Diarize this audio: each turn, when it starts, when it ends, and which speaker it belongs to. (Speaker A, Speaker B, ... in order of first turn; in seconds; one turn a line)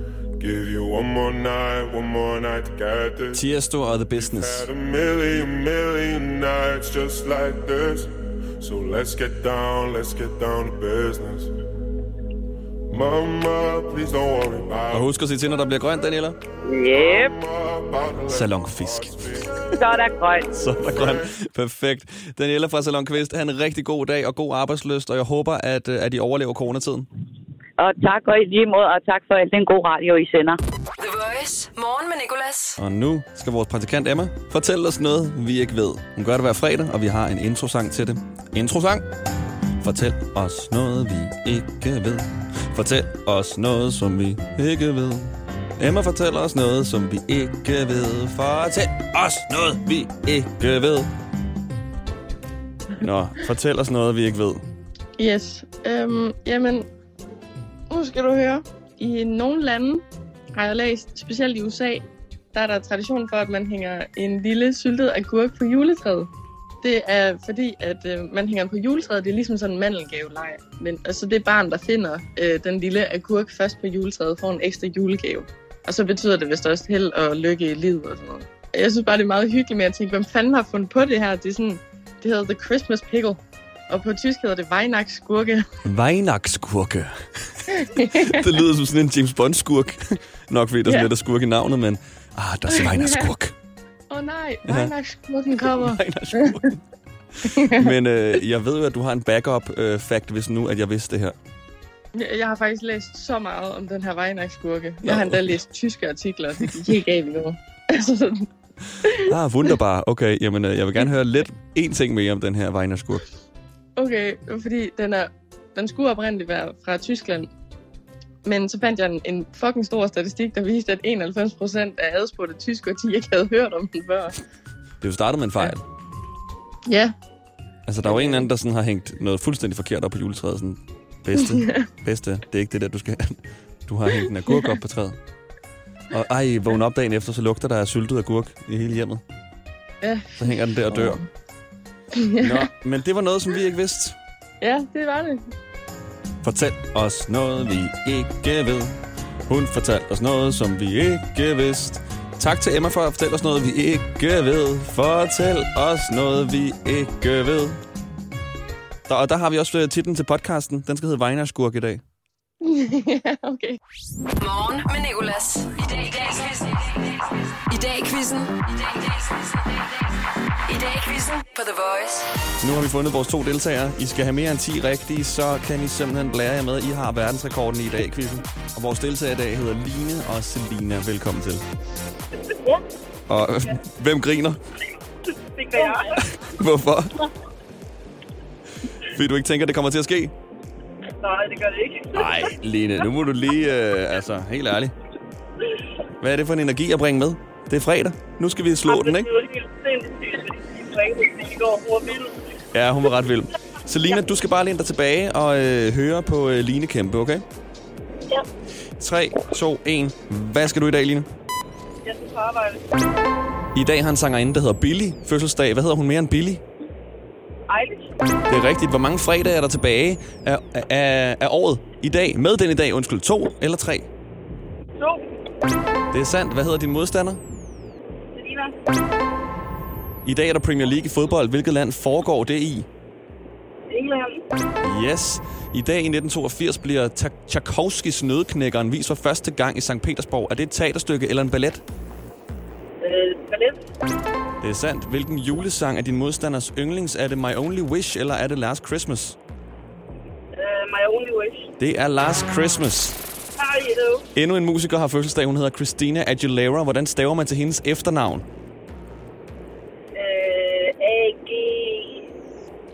Speaker A: 0.4-3.4
Speaker B: 3.3-4.7
Speaker A: 4.2-11.5
Speaker A: 12.9-15.1
Speaker B: 14.9-16.4
Speaker C: 16.6-17.4
Speaker A: 16.9-19.6
Speaker B: 18.3-19.2
Speaker C: 19.7-20.5
Speaker B: 20.5-27.1
Speaker A: 20.8-21.3
Speaker C: 27.8-30.6
Speaker D: 31.0-32.8
Speaker B: 32.8-39.1
Speaker B: 39.8-51.1
Speaker B: 53.0-54.6
Speaker E: 55.2-56.9
Speaker E: 57.9-66.3
Speaker E: 66.8-85.7
Speaker B: 85.8-93.5
Speaker E: 87.9-88.5
Speaker E: 92.7-93.3
Speaker E: 94.1-96.6
Speaker B: 94.7-94.9
Speaker B: 95.6-96.8
Speaker B: 97.4-101.4
Speaker E: 97.5-98.0
Speaker E: 102.1-108.5
Speaker B: 105.0-105.5
Speaker E: 109.0-109.3
Speaker B: 109.2-113.2
Speaker E: 114.0-117.5
Speaker E: 118.4-124.4
Speaker B: 125.0-125.8
Speaker E: 126.9-127.2
Speaker B: 127.9-135.2
Speaker E: 128.1-128.5
Speaker E: 131.4-131.8
Speaker B: 136.1-139.2
Speaker E: 140.0-141.3
Speaker B: 140.4-141.2
Speaker E: 142.2-142.7
Speaker B: 142.4-144.2
Speaker E: 144.6-145.4
Speaker B: 146.4-148.9
Speaker B: 149.5-157.8
Speaker B: 159.1-162.0
Speaker E: 162.6-163.8
Speaker D: 164.4-170.1
Speaker D: 170.7-172.3
Speaker B: 172.6-181.6
Speaker F: 182.5-182.8
Speaker B: 183.3-184.6
Speaker F: 185.5-186.2
Speaker B: 186.2-187.2
Speaker B: 189.0-190.3
Speaker F: 191.2-192.4
Speaker B: 192.1-194.9
Speaker B: 196.2-199.3
Speaker F: 198.9-202.4
Speaker B: 202.7-207.4
Speaker B: 209.0-211.3
Speaker F: 212.1-212.8
Speaker B: 213.8-216.6
Speaker F: 217.7-218.1
Speaker B: 218.5-224.1
Speaker F: 225.0-225.2
Speaker B: 226.1-227.4
Speaker F: 228.3-228.8
Speaker B: 230.2-232.9
Speaker F: 233.9-234.4
Speaker B: 234.8-241.8
Speaker F: 243.0-243.8
Speaker B: 244.6-249.4
Speaker F: 250.6-251.7
Speaker B: 251.8-253.2
Speaker F: 253.6-254.2
Speaker B: 254.3-258.4
Speaker F: 260.1-262.3